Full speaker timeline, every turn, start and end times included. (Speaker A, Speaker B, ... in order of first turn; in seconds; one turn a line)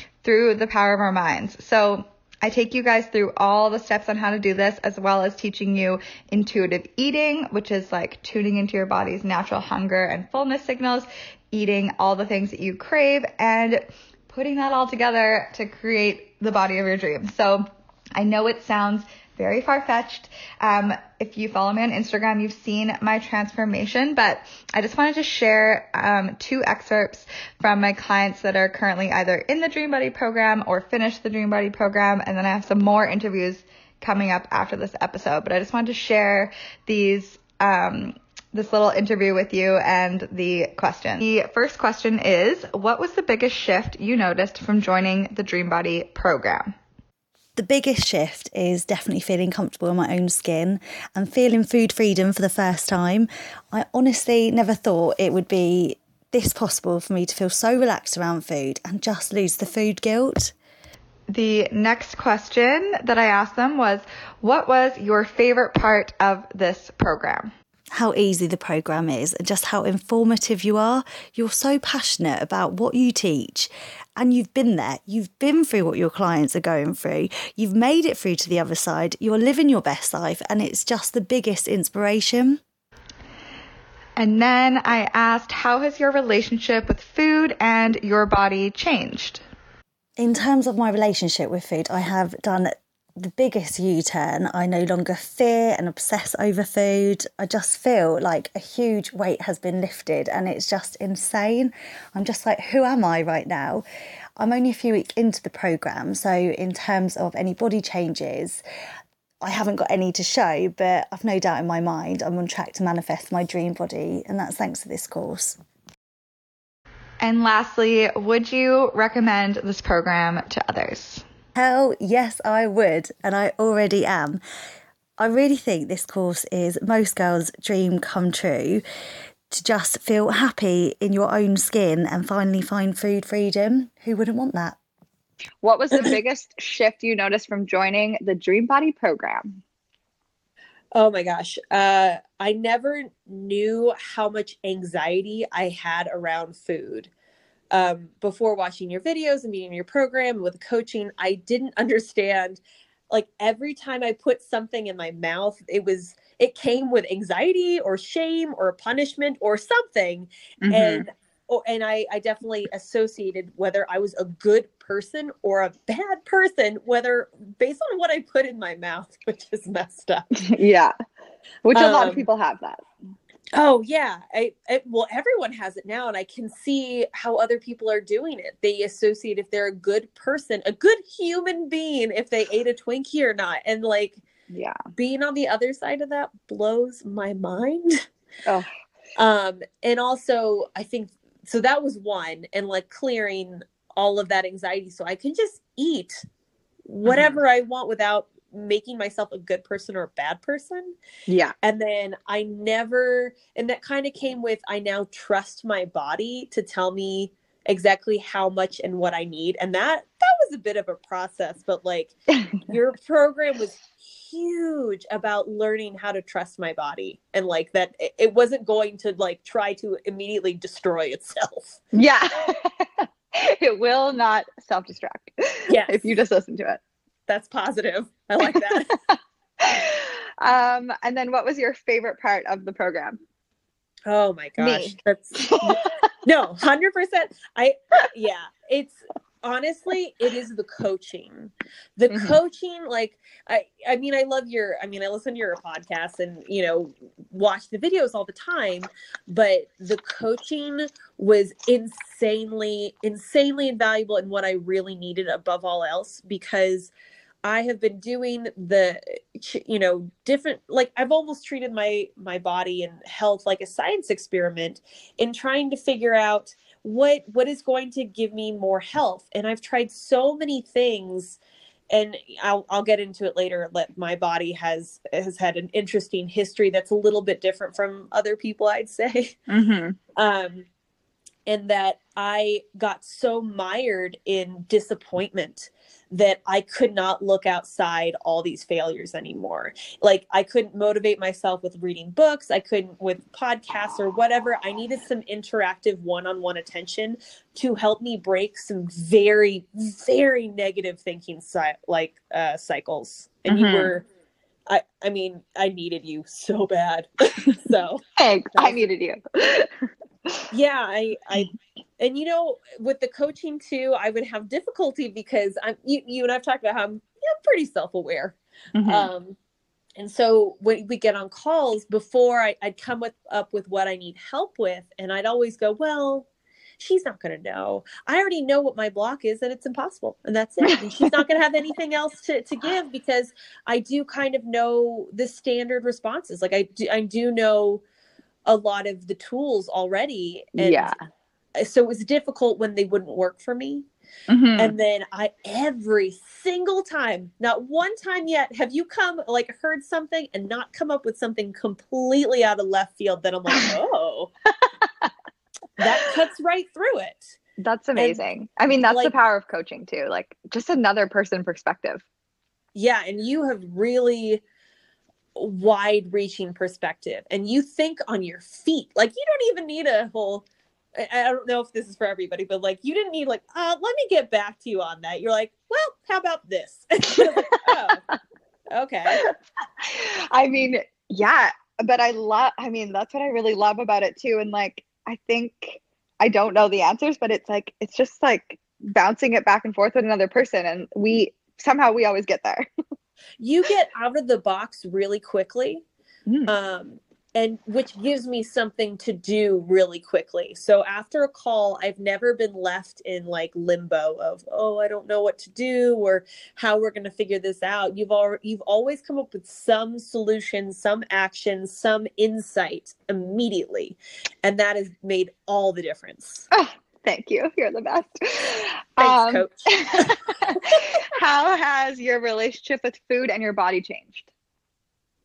Speaker A: 0.2-46.8
Speaker B: 47.6-60.5
Speaker A: 61.3-67.5
Speaker B: 67.9-82.6
Speaker A: 84.2-89.4
Speaker B: 90.2-103.8
Speaker B: 104.4-108.6
Speaker B: 109.4-115.6
Speaker A: 117.2-121.3
Speaker B: 121.6-124.4
Speaker B: 125.2-128.8
Speaker B: 129.5-134.8
Speaker C: 135.6-139.6
Speaker D: 140.9-147.1
Speaker D: 147.7-170.4
Speaker C: 160.6-161.1
Speaker C: 170.4-170.9
Speaker C: 171.6-172.8
Speaker D: 171.7-172.3
Speaker D: 173.5-184.2
Speaker C: 184.5-184.8
Speaker D: 184.9-188.1
Speaker D: 189.2-196.2
Speaker D: 196.9-200.9
Speaker C: 197.1-197.4
Speaker C: 201.3-201.6
Speaker D: 201.6-221.8
Speaker C: 221.9-226.8
Speaker D: 225.7-226.2
Speaker D: 227.3-229.0
Speaker C: 228.4-233.2
Speaker D: 234.1-256.9
Speaker C: 234.6-236.1
Speaker C: 242.1-242.4
Speaker D: 257.4-271.4
Speaker D: 271.9-279.4
Speaker C: 279.5-280.0
Speaker D: 280.2-280.7
Speaker D: 281.5-304.1
Speaker C: 303.5-303.9
Speaker D: 304.7-308.0
Speaker C: 308.2-310.5
Speaker D: 308.6-308.9
Speaker D: 310.5-319.4
Speaker C: 318.8-319.1
Speaker D: 320.0-326.3
Speaker D: 326.8-337.8
Speaker C: 330.7-331.1
Speaker D: 338.5-340.9
Speaker C: 340.6-341.0
Speaker D: 341.6-343.9
Speaker C: 344.3-344.8
Speaker D: 344.6-354.3
Speaker C: 354.6-355.1
Speaker D: 355.8-357.4
Speaker C: 357.6-362.0
Speaker D: 358.0-359.2
Speaker D: 362.8-364.4
Speaker D: 365.4-370.5
Speaker D: 371.0-378.0
Speaker C: 377.2-378.2
Speaker D: 378.7-379.2
Speaker C: 379.1-392.7
Speaker D: 393.4-395.8
Speaker C: 396.3-396.5
Speaker D: 396.5-416.5
Speaker C: 416.5-424.3
Speaker D: 419.0-420.9